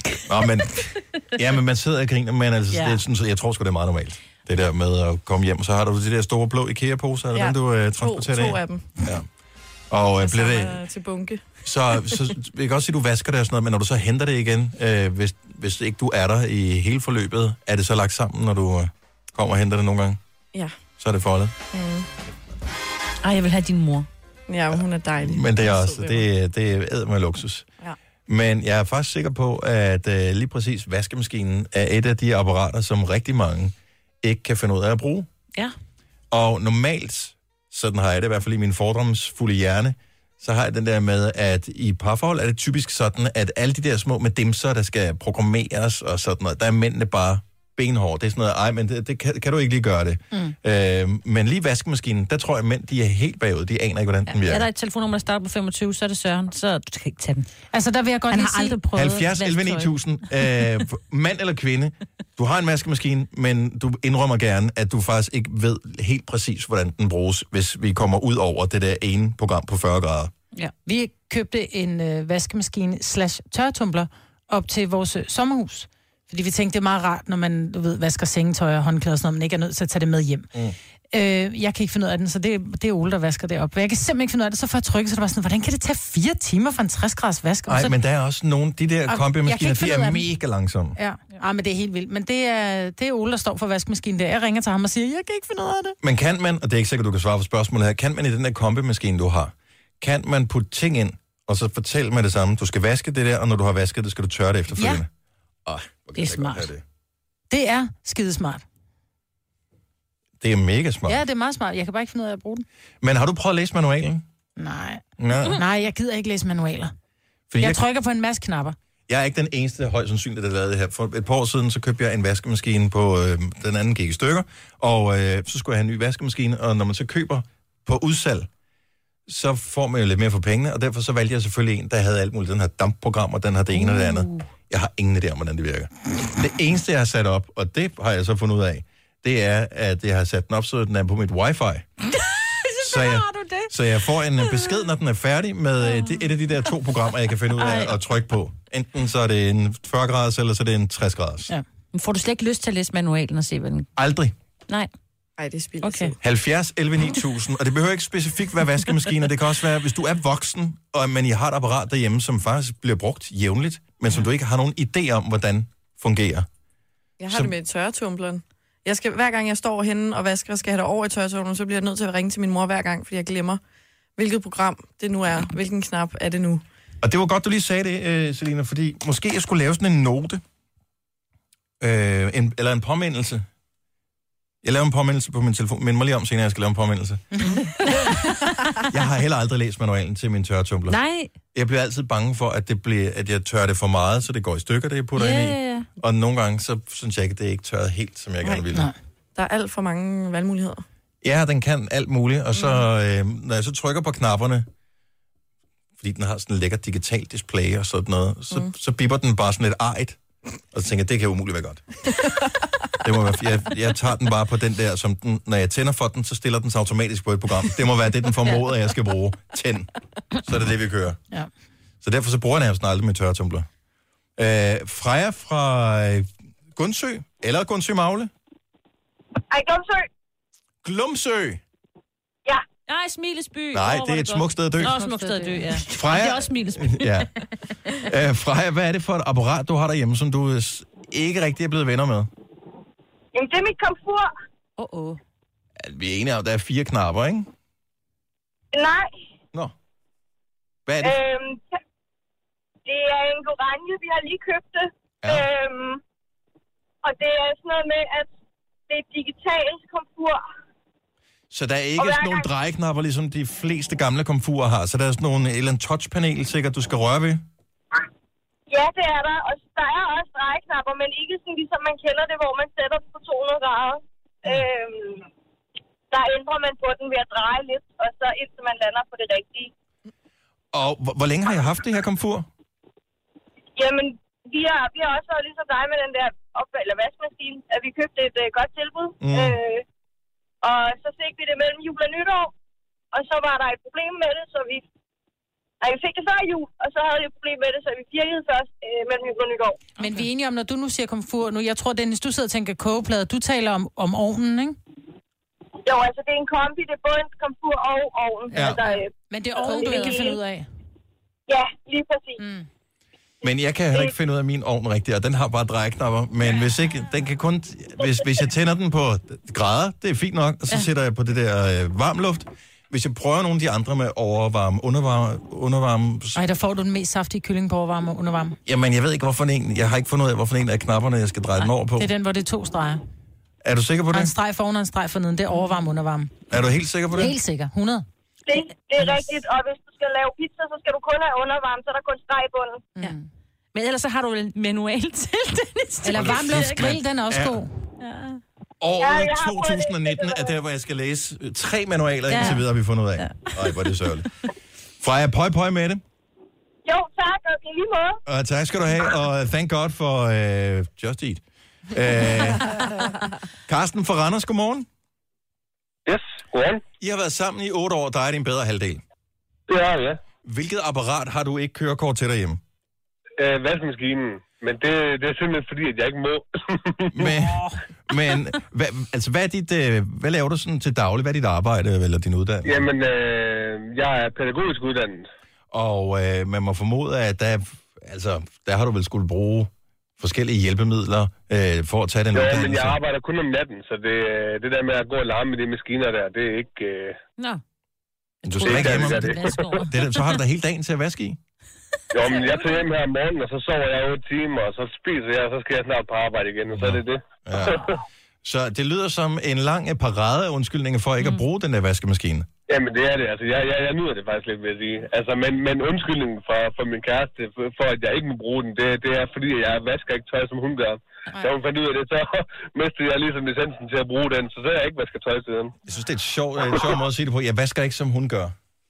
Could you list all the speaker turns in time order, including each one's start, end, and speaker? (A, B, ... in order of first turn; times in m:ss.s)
0:00.2-0:00.7 A
0:01.3-0:09.3 A
0:07.3-0:09.0 B
0:09.9-0:10.8 A
0:10.2-0:11.4 B
0:11.6-0:20.2 A
0:21.0-0:21.6 A
0:21.7-0:22.1 B
0:23.2-0:24.1 C
0:24.5-0:26.3 B
0:24.8-0:27.7 A
0:28.3-0:35.3 A
0:36.3-0:54.7 A
0:54.3-0:57.5 C
0:57.7-0:58.8 D
0:58.3-0:59.9 C
0:58.9-1:10.3 A
1:10.9-1:20.5 D
1:21.1-1:27.9 D
1:27.7-1:31.0 A
1:29.1-1:30.2 D
1:31.0-1:36.0 D
1:36.0-1:45.1 A
1:44.8-1:45.0 D
1:45.7-1:46.8 A
1:46.2-1:46.5 D
1:47.5-1:48.6 D
1:50.4-1:51.2 A
1:51.1-1:52.7 D
1:53.0-1:54.2 A
1:54.6-1:56.9 D
1:55.2-1:55.6 A
1:57.5-1:57.8 A
1:57.6-1:58.7 D
1:59.1-2:08.5 A
2:09.3-2:21.9 A
2:22.8-2:31.5 A
2:22.8-2:23.7 D
2:27.6-2:28.0 C
2:31.9-2:33.9 C
2:34.0-2:34.3 A
2:35.4-2:36.2 B
2:35.8-2:36.1 C
2:36.2-2:46.5 A
2:47.2-2:53.6 B
2:54.2-2:56.6 B
2:57.0-3:00.4 A
3:01.8-3:03.4 A
3:04.6-3:07.5 A
3:08.9-3:11.0 A
3:10.9-3:11.3 C
3:11.5-3:18.9 A
3:15.2-3:15.9 C
3:19.3-3:20.8 B
3:21.2-3:24.7 A
3:26.0-3:30.2 A
3:30.7-3:31.9 A
3:33.0-3:41.2 A
3:42.0-3:43.7 A
3:44.4-3:48.3 A
3:49.5-3:50.1 E
3:50.8-3:51.6 A
3:52.9-3:57.3 C
3:53.7-3:55.0 A
3:54.8-3:55.8 D
3:55.9-3:57.3 A
3:58.0-4:02.3 A
4:03.3-4:04.3 E
4:04.8-4:05.2 C
4:05.8-4:07.5 A
4:08.7-4:09.2 E
4:10.9-4:11.2 A
4:11.0-4:11.8 E
4:12.9-4:16.0 E
4:17.0-4:18.3 E
4:18.9-4:20.4 E
4:21.5-4:27.4 A
4:22.0-4:22.5 E
4:28.7-4:35.3 E
4:36.1-4:39.7 E
4:40.7-4:42.5 A
4:43.8-4:49.8 E
4:49.2-4:49.6 A
4:50.6-4:52.5 E
4:53.1-4:54.8 E
4:55.8-4:59.8 E
5:00.0-5:04.8 D
5:05.8-5:10.4 E
5:08.5-5:08.8 A
5:09.3-5:10.7 D
5:11.5-5:12.4 E
5:12.4-5:12.7 D
5:13.4-5:26.4 A
5:26.4-5:28.6 D
5:28.7-5:32.1 A
5:32.0-5:33.0 D
5:33.6-5:34.3 A
5:34.1-5:36.3 D
5:36.5-5:37.3 A
5:37.1-5:38.0 D
5:38.4-5:42.9 E
5:43.0-5:43.2 D
5:43.7-5:47.0 C
5:46.0-5:47.7 D
5:46.1-5:47.6 A
5:48.0-5:48.4 C
5:48.8-5:54.3 A
5:49.0-5:50.5 E
5:52.3-5:52.6 C
5:53.2-5:53.5 C
5:55.0-5:56.0 A
5:56.8-5:58.2 E
5:58.3-6:02.8 A
6:03.7-6:04.9 A
6:06.0-6:06.8 F
6:07.0-6:09.0 A
6:09.7-6:10.2 F
6:10.4-6:12.6 A
6:13.4-6:17.1 F
6:17.1-6:22.9 A
6:22.6-6:25.3 F
6:25.7-6:33.0 A
6:32.3-6:37.2 F
6:38.4-6:40.4 C
6:38.4-6:41.4 A
6:38.6-6:39.8 F
6:42.1-6:48.0 F
6:42.3-6:42.6 C
6:46.7-6:47.8 A
6:48.4-6:52.5 A
6:52.7-7:05.8 F
7:05.9-7:08.5 A